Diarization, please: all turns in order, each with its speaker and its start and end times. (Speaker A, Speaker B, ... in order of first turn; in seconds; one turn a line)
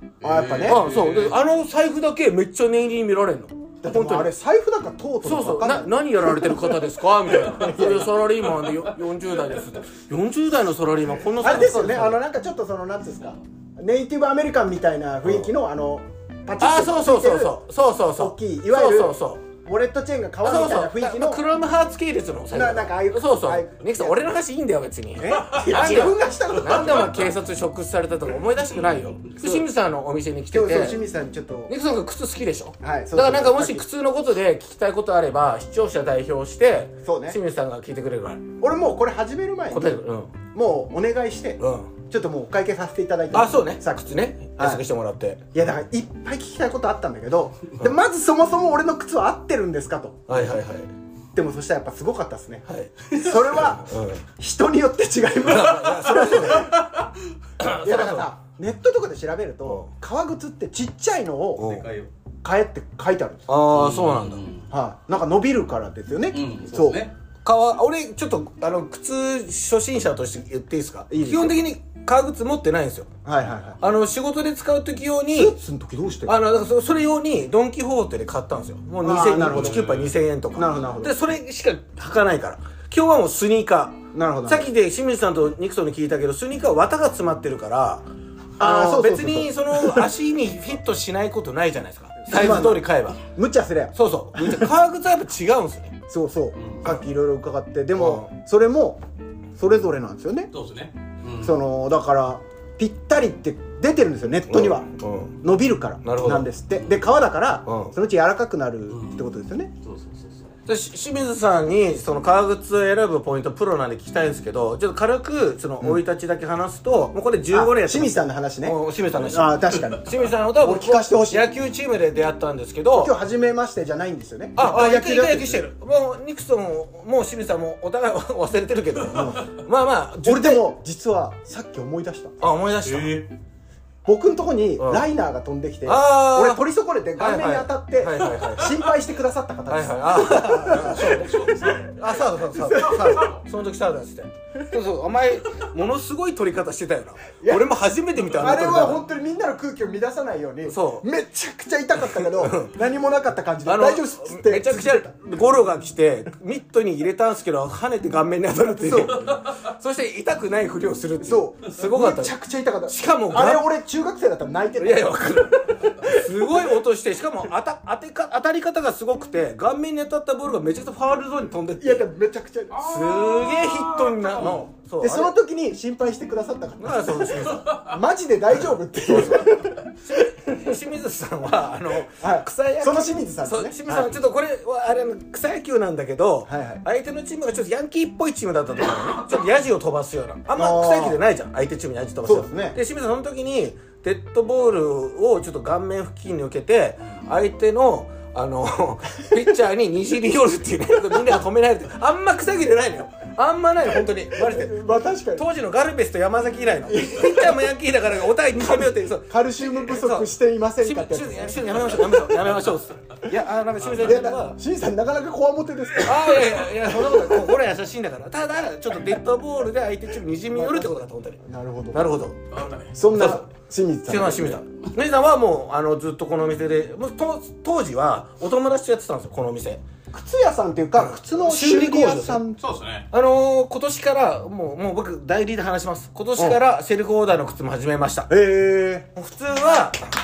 Speaker A: 0.2-1.4
Speaker B: 0.2-0.9
Speaker C: 0.7-4.3
Speaker B: 3.8-8.1
Speaker C: 5.2-12.2
Speaker B: 11.4-21.4
Speaker C: 16.6-19.5
Speaker C: 20.4-31.0
Speaker B: 22.5-24.2
Speaker B: 25.2-27.3
Speaker B: 30.5-31.7
Speaker C: 31.7-38.4
Speaker B: 32.8-33.9
Speaker B: 37.0-37.4
Speaker B: 38.6-40.0
Speaker C: 39.7-40.3
Speaker B: 40.5-44.8
Speaker C: 41.6-41.9
Speaker C: 43.3-45.4
Speaker B: 45.5-50.5
Speaker C: 50.3-50.9
Speaker B: 51.3-56.8
Speaker C: 52.7-54.2
Speaker C: 55.5-56.8
Speaker C: 57.6-58.3
Speaker B: 57.6-61.7
Speaker C: 61.6-61.9
Speaker A: 61.6-62.1
Speaker B: 62.4-63.5
Speaker C: 63.5-64.4
Speaker A: 63.7-64.7
Speaker B: 64.7-67.0
Speaker A: 66.3-67.1
Speaker C: 67.4-73.1
Speaker B: 71.1-71.6
Speaker B: 73.2-73.8
Speaker C: 73.8-75.6
Speaker B: 75.3-76.3
Speaker C: 76.3-88.1
Speaker B: 79.0-79.9
Speaker A: 79.4-80.1
Speaker B: 80.5-81.2
Speaker B: 84.1-84.7
Speaker B: 88.6-90.1
Speaker C: 88.6-93.2
Speaker B: 92.2-94.7
Speaker C: 93.9-96.0
Speaker B: 96.1-99.0
Speaker A: 96.6-97.0
Speaker C: 98.0-98.3
Speaker B: 99.6-100.5
Speaker A: 100.5-101.6
Speaker B: 101.4-104.9
Speaker C: 104.5-105.4
Speaker B: 105.4-109.7
Speaker C: 106.0-106.5
Speaker A: 106.7-107.1
Speaker C: 107.7-107.9
Speaker A: 108.9-110.5
Speaker C: 110.7-123.2
Speaker B: 117.5-121.4
Speaker B: 122.9-125.6
Speaker C: 124.6-130.7
Speaker B: 129.1-129.4
Speaker B: 130.2-132.3
Speaker C: 132.4-133.3
Speaker A: 132.9-133.2
Speaker B: 134.1-141.8
Speaker C: 134.8-135.1
Speaker C: 135.9-136.6
Speaker C: 137.2-138.8
Speaker C: 139.7-149.1
Speaker A: 140.7-142.0
Speaker B: 142.5-143.3
Speaker A: 142.7-143.4
Speaker B: 147.4-147.7
Speaker B: 148.3-155.1
Speaker C: 150.7-151.1
Speaker C: 152.0-152.7
Speaker C: 153.7-162.4
Speaker B: 158.8-159.2
Speaker B: 161.2-165.2
Speaker C: 162.9-163.6
Speaker C: 164.8-172.1
Speaker B: 171.8-172.9
Speaker A: 172.7-174.7
Speaker C: 172.8-175.3
Speaker B: 175.0-179.9
Speaker C: 176.8-177.7
Speaker A: 177.6-178.0
Speaker C: 179.1-214.6
Speaker B: 182.2-184.1
Speaker B: 186.5-186.8
Speaker B: 190.6-191.2
Speaker B: 192.2-192.8
Speaker B: 204.3-205.4
Speaker B: 206.9-207.6
Speaker B: 209.3-212.6
Speaker A: 213.8-214.1
Speaker B: 214.0-217.6
Speaker C: 216.0-221.4
Speaker B: 220.5-222.2
Speaker C: 221.9-222.4
Speaker A: 222.5-223.0
Speaker B: 222.9-224.6
Speaker C: 223.1-223.5
Speaker C: 224.1-229.8
Speaker B: 230.1-232.6
Speaker C: 231.0-232.4
Speaker A: 232.6-233.1
Speaker C: 233.1-238.3
Speaker B: 238.3-239.1
Speaker C: 239.2-240.0